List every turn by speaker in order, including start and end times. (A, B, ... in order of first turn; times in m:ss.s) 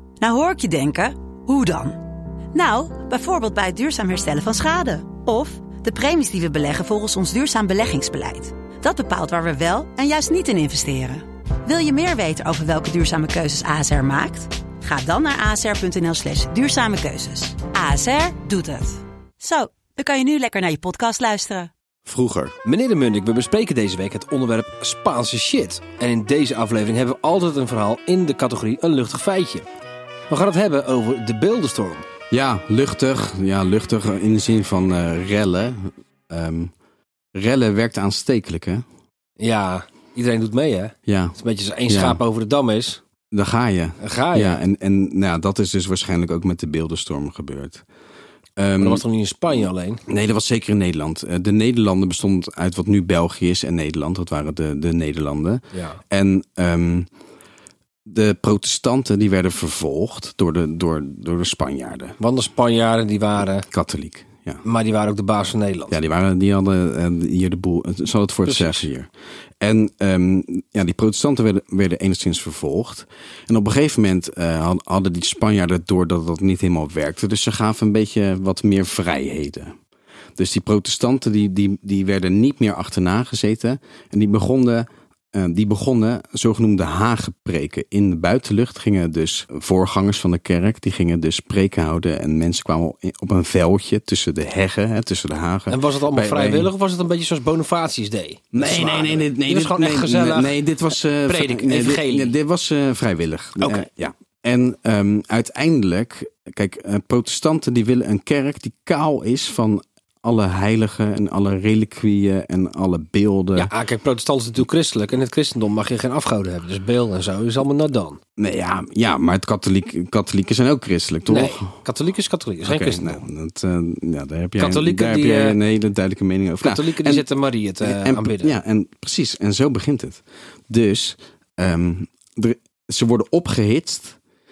0:00.2-0:02.0 A
0:02.5-0:21.7 A
0:22.0-0:22.6 B
0:22.6-0:29.7 C
0:30.3-0:32.0 C
0:32.3-0:36.7 B
0:37.3-0:38.8 B
0:39.4-0:43.0 C
0:41.1-0:42.2 B
0:43.3-0:47.8 B
0:44.0-0:44.6 C
0:48.6-0:49.0 B
0:48.8-0:50.0 C
0:50.1-0:57.1 B
0:55.7-0:56.0 C
0:58.0-1:02.2 B
1:02.2-1:03.7 C
1:03.7-1:04.6 B
1:04.6-1:06.0 C
1:05.9-1:19.7 B
1:08.4-1:08.9 C
1:20.4-1:36.7 B
1:35.7-1:40.6 C
1:38.5-1:53.7 B
1:41.2-1:42.4 C
1:43.6-1:43.9 C
1:53.6-1:58.2 C
1:58.4-2:01.7 B
2:01.3-2:03.2 C
2:02.6-2:07.3 B
2:04.6-2:05.6 C
2:06.6-2:08.6 C
2:07.8-2:14.2 B